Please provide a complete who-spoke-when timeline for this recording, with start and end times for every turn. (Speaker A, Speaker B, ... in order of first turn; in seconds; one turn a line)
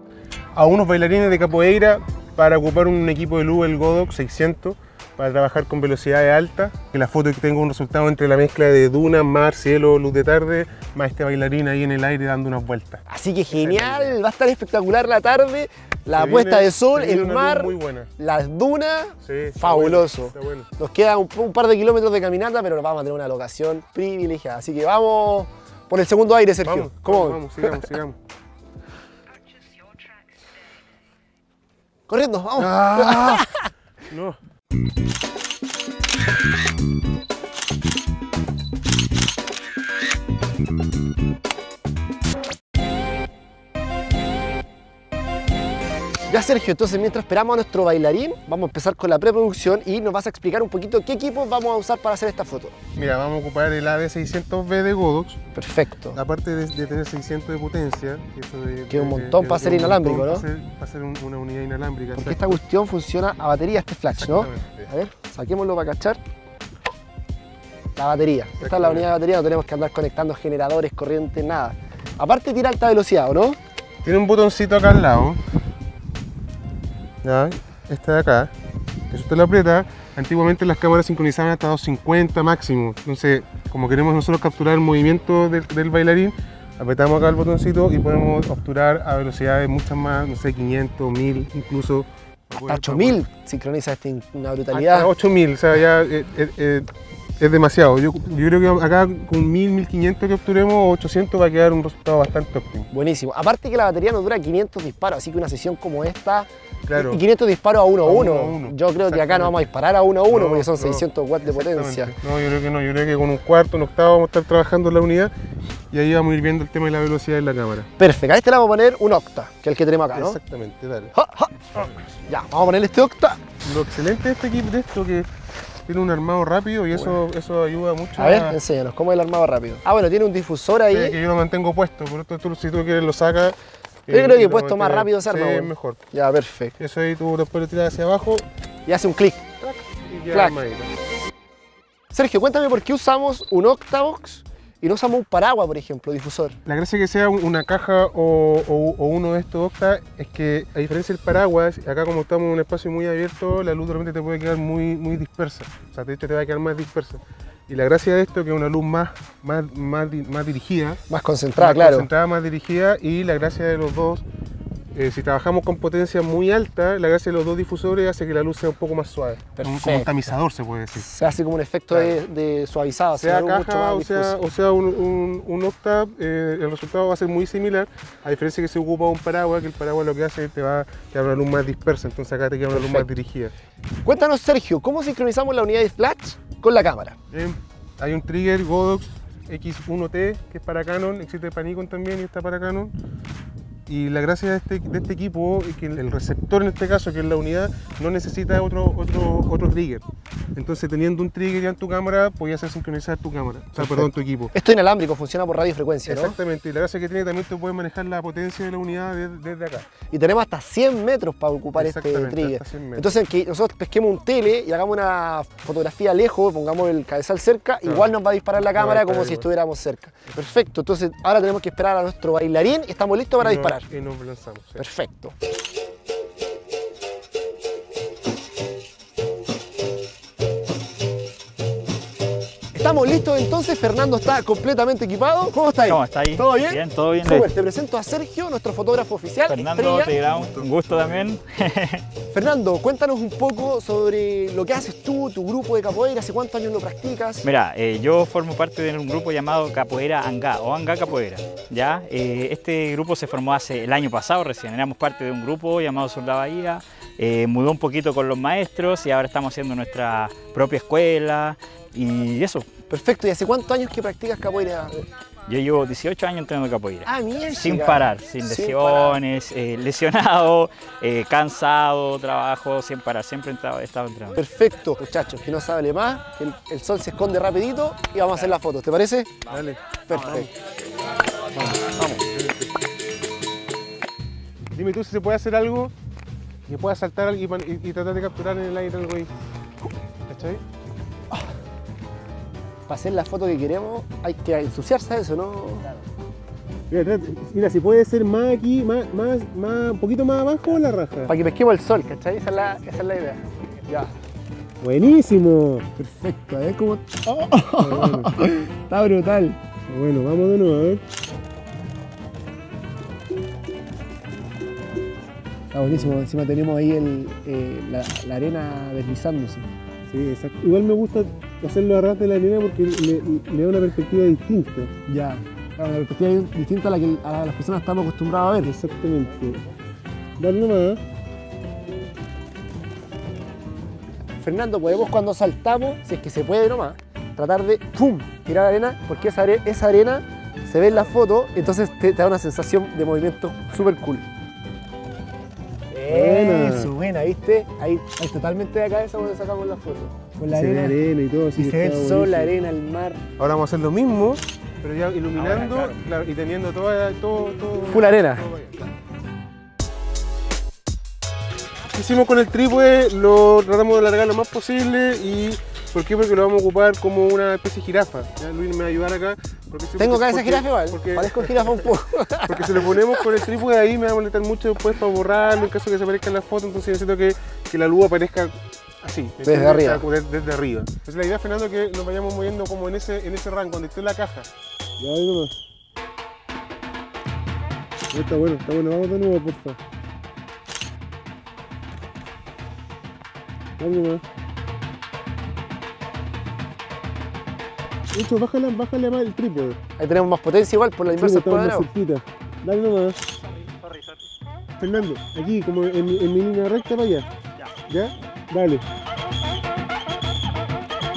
Speaker A: 0.5-14.2
Speaker B: 13.1-27.9
Speaker A: 16.1-18.1
Speaker A: 19.2-20.7
Speaker A: 26.6-28.2
Speaker B: 32.1-33.7
Speaker A: 32.6-33.4
Speaker A: 34.1-34.4
Speaker B: 46.3-52.8
Speaker A: 52.9-55.4
Speaker B: 55.5-56.2
Speaker A: 56.1-62.5
Speaker B: 58.9-60.5
Speaker B: 62.1-66.2
Speaker A: 64.1-64.9
Speaker B: 68.0-73.6
Speaker A: 68.6-69.1
Speaker A: 74.0-75.4
Speaker A: 77.2-78.5
Speaker A: 79.1-93.2
Speaker B: 92.5-95.1
Speaker A: 94.7-102.9
Speaker B: 102.9-112.1
Speaker A: 106.9-107.2
Speaker A: 108.0-109.7
Speaker A: 110.3-115.3
Speaker A: 115.9-117.9
Speaker B: 118.0-120.4
Speaker A: 120.1-121.1
Speaker B: 121.1-123.4
Speaker A: 123.6-125.3
Speaker A: 125.8-128.6
Speaker B: 126.9-127.2
Speaker B: 128.2-131.2
Speaker A: 130.9-136.1
Speaker B: 134.1-136.8
Speaker A: 136.8-138.4
Speaker B: 138.8-139.5
Speaker A: 139.6-140.9
Speaker B: 140.3-140.6
Speaker B: 142.1-146.6
Speaker A: 146.6-161.0
Speaker B: 161.1-162.1
Speaker A: 161.6-164.2
Speaker A: 164.9-171.1
Speaker B: 169.6-170.1
Speaker B: 170.9-174.4
Speaker A: 171.9-172.2
Speaker A: 173.1-183.5
Speaker B: 182.7-183.1
Speaker B: 184.0-187.2
Speaker A: 187.3-192.9
Speaker A: 193.9-204.5
Speaker B: 203.8-206.3
Speaker A: 206.1-209.9
Speaker B: 210.1-223.8
Speaker A: 211.7-213.1
Speaker A: 217.8-219.5
Speaker A: 223.4-224.8
Speaker B: 224.8-225.3
Speaker B: 232.7-240.1
Speaker C: 235.8-237.5
Speaker C: 239.5-242.0
Speaker A: 240.1-241.3
Speaker B: 242.3-247.4
Speaker C: 247.4-262.7
Speaker B: 262.9-265.0
Speaker C: 265.5-274.4
Speaker B: 267.0-269.2
Speaker B: 274.3-279.3
Speaker A: 279.5-280.5
Speaker B: 280.1-280.5
Speaker B: 281.6-282.1
Speaker A: 281.7-282.7
Speaker A: 284.7-285.9
Speaker A: 286.6-289.3
Speaker A: 290.3-290.6
Speaker B: 292.9-295.9
Speaker A: 296.9-301.3
Speaker B: 301.3-304.1
Speaker A: 304.8-305.9
Speaker B: 306.0-309.6
Speaker A: 307.8-308.4
Speaker A: 309.9-311.0
Speaker B: 315.7-319.7
Speaker A: 315.9-316.1
Speaker A: 320.1-324.9
Speaker B: 325.1-328.7
Speaker A: 328.6-329.6
Speaker A: 330.4-331.0
Speaker B: 334.4-344.2
Speaker B: 345.9-351.0
Speaker A: 346.1-346.9
Speaker A: 350.5-352.5
Speaker B: 351.5-353.2
Speaker A: 353.4-358.9
Speaker B: 355.3-355.9
Speaker B: 357.8-358.4
Speaker A: 361.9-371.9
Speaker B: 370.0-373.0
Speaker A: 372.4-385.6
Speaker B: 379.4-380.0
Speaker A: 388.1-389.8
Speaker A: 393.8-394.2
Speaker A: 398.1-399.8
Speaker B: 400.0-401.9
Speaker A: 401.1-403.2
Speaker A: 404.8-408.9